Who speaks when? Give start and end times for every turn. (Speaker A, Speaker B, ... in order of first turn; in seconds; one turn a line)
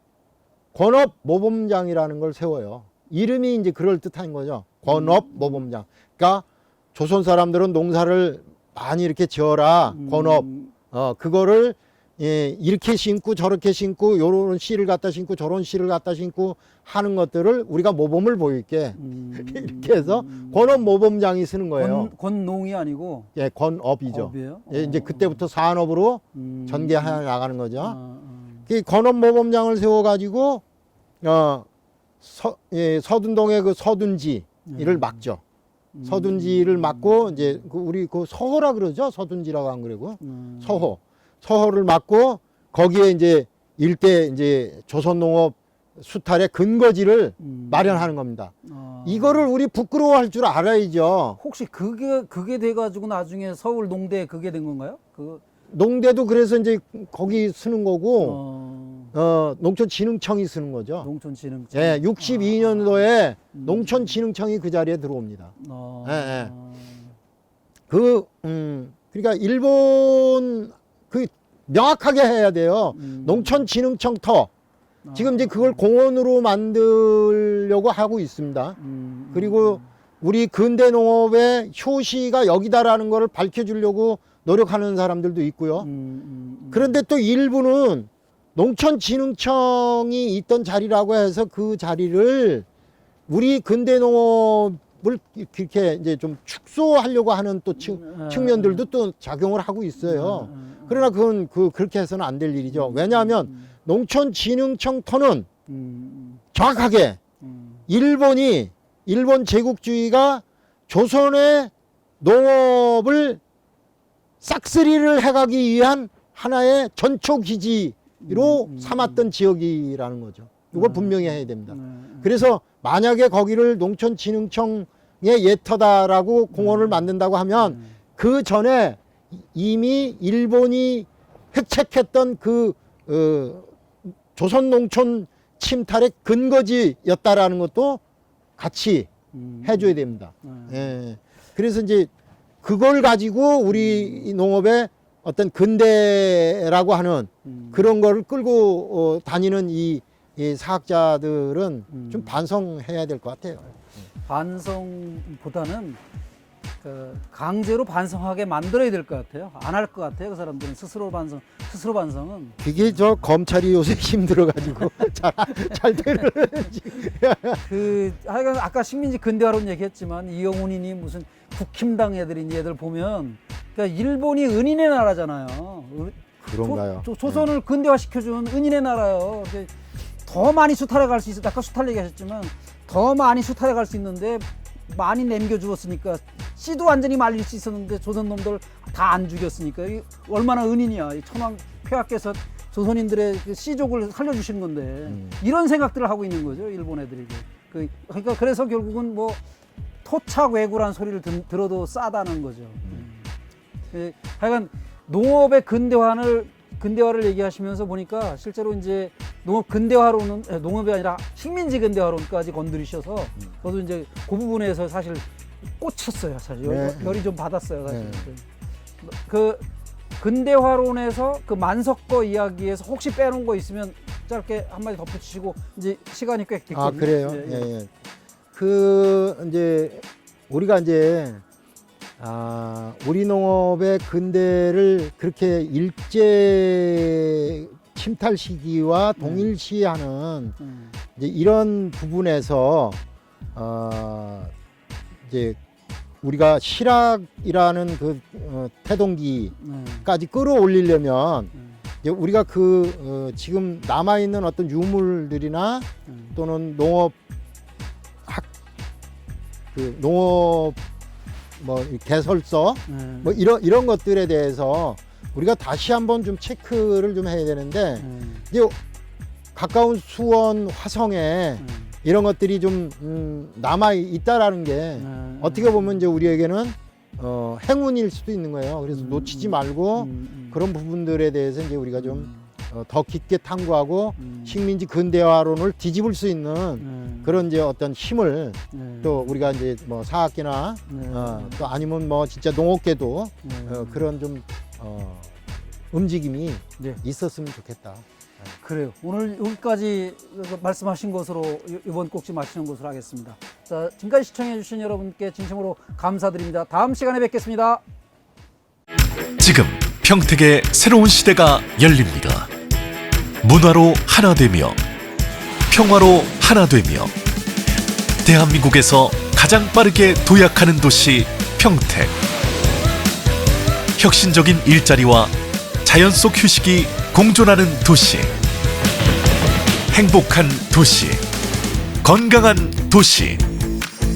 Speaker A: 0.7-22.1
Speaker B: 4.9-5.6
Speaker B: 9.9-10.7
Speaker B: 18.9-20.9
Speaker B: 21.8-23.3
Speaker A: 23.3-28.0
Speaker B: 24.1-25.4
Speaker B: 26.3-27.2
Speaker B: 27.8-28.7
Speaker A: 28.7-30.6
Speaker A: 31.2-31.6
Speaker A: 32.2-35.4
Speaker B: 34.6-35.2
Speaker B: 35.9-37.6
Speaker A: 36.0-48.5
Speaker B: 40.2-40.9
Speaker B: 47.4-48.1
Speaker B: 48.6-49.5
Speaker A: 49.0-51.4
Speaker B: 51.4-55.4
Speaker A: 55.7-58.4
Speaker B: 58.2-59.1
Speaker A: 59.1-61.1
Speaker B: 61.0-64.2
Speaker A: 61.7-65.5
Speaker B: 65.6-67.1
Speaker A: 66.0-66.5
Speaker A: 67.9-74.5
Speaker B: 72.9-73.7
Speaker B: 75.0-75.8
Speaker A: 75.1-78.8
Speaker B: 78.8-79.9
Speaker A: 79.3-85.9
Speaker B: 85.8-87.0
Speaker A: 86.7-92.7
Speaker A: 93.3-105.5
Speaker B: 97.8-98.8
Speaker B: 100.0-101.1
Speaker B: 102.7-103.7
Speaker B: 105.7-106.4
Speaker A: 106.5-107.2
Speaker B: 107.4-107.8
Speaker A: 107.9-113.4
Speaker A: 114.4-133.7
Speaker B: 118.2-119.3
Speaker B: 120.7-122.3
Speaker B: 126.5-128.0
Speaker A: 134.3-138.0
Speaker A: 138.6-139.1
Speaker B: 139.3-141.0
Speaker A: 139.6-142.1
Speaker A: 142.6-153.8
Speaker B: 143.7-144.3
Speaker B: 147.4-147.9
Speaker B: 151.9-152.4
Speaker B: 154.2-156.0
Speaker B: 156.8-163.1
Speaker A: 162.6-167.8
Speaker B: 167.6-179.7
Speaker A: 176.4-177.5
Speaker B: 180.2-199.4
Speaker A: 195.1-195.4
Speaker B: 200.0-203.3
Speaker B: 203.9-218.4
Speaker A: 216.6-217.3
Speaker A: 217.9-218.3
Speaker B: 219.0-219.7
Speaker B: 220.2-227.7
Speaker A: 226.7-227.9
Speaker A: 228.5-231.4
Speaker A: 232.2-240.6
Speaker B: 239.2-239.5
Speaker B: 240.6-240.9
Speaker A: 241.2-243.0
Speaker A: 243.5-244.5
Speaker A: 245.2-245.6
Speaker A: 246.2-251.5
Speaker B: 249.6-250.1
Speaker A: 252.0-257.1
Speaker B: 256.1-256.4
Speaker A: 259.7-260.8
Speaker A: 261.6-268.8
Speaker B: 262.9-263.4
Speaker B: 268.0-268.4
Speaker A: 269.5-295.3
Speaker B: 271.6-271.9
Speaker B: 275.0-276.1
Speaker B: 278.9-280.6
Speaker B: 282.0-282.5
Speaker B: 284.2-284.7
Speaker B: 286.8-287.4
Speaker B: 288.7-289.5
Speaker B: 290.9-291.8
Speaker B: 293.4-294.1
Speaker A: 295.9-298.0
Speaker B: 298.6-307.8
Speaker C: 309.4-312.5
Speaker C: 313.4-314.8
Speaker C: 315.7-317.1
Speaker C: 318.2-322.1
Speaker C: 323.9-328.3
Speaker C: 329.9-331.2
Speaker C: 332.0-333.4